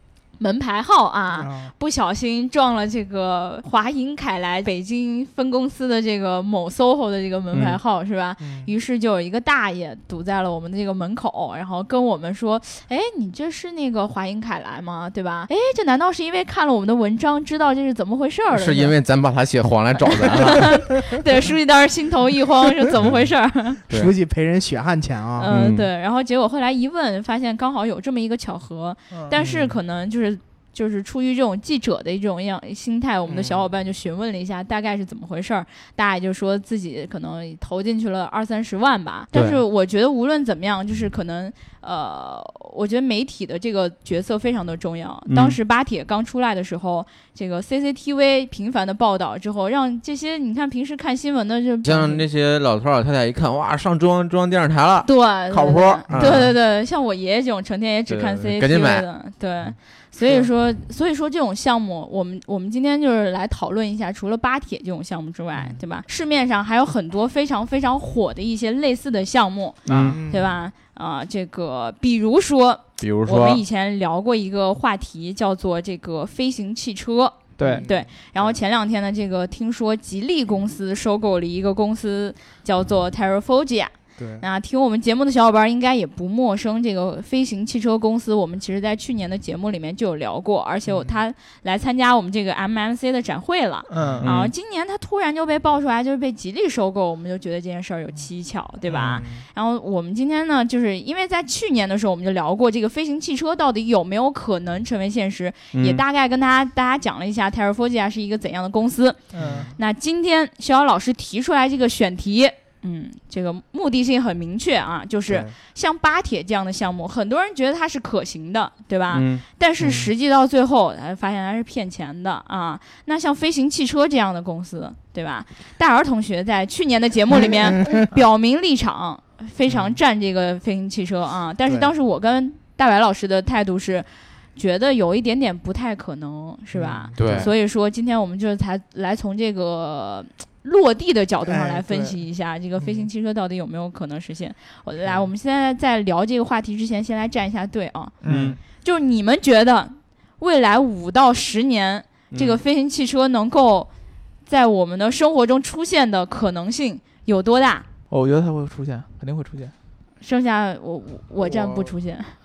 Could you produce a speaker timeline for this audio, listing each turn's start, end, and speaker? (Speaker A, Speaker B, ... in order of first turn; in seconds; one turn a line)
Speaker A: 0.4-18.9
Speaker B: 1.3-1.7
Speaker C: 7.5-7.8
Speaker B: 8.4-8.7
Speaker C: 18.5-20.7
Speaker A: 20.2-23.8
Speaker B: 23.9-25.5
Speaker A: 25.4-52.2
Speaker C: 25.5-25.9
Speaker D: 29.1-29.4
Speaker B: 29.4-29.8
Speaker B: 33.3-33.6
Speaker C: 39.3-39.6
Speaker C: 45.3-45.6
Speaker C: 51.8-56.5
Speaker A: 55.0-109.2
Speaker B: 56.1-56.5
Speaker C: 58.1-59.0
Speaker B: 60.2-60.5
Speaker C: 69.8-70.2
Speaker D: 69.9-70.2
Speaker B: 69.9-70.5
Speaker C: 73.0-73.6
Speaker D: 77.6-77.8
Speaker B: 77.6-78.5
Speaker B: 84.2-84.5
Speaker B: 90.9-91.2
Speaker D: 93.9-94.3
Speaker C: 94.2-94.5
Speaker B: 98.9-99.5
Speaker C: 105.7-106.0
Speaker D: 109.3-109.7
Speaker B: 109.3-109.8
Speaker A: 109.8-148.2
Speaker B: 115.3-115.5
Speaker C: 119.1-119.4
Speaker B: 119.8-120.1
Speaker B: 127.4-128.0
Speaker B: 129.7-130.0
Speaker B: 136.7-137.5
Speaker C: 137.2-137.5
Speaker B: 141.4-142.2
Speaker D: 148.2-148.6
Speaker B: 148.2-148.6
Speaker C: 148.2-148.6
Speaker A: 148.8-153.9
Speaker C: 152.3-152.6
Speaker A: 154.5-157.9
Speaker D: 158.1-159.7
Speaker A: 160.2-162.3
Speaker B: 161.4-161.9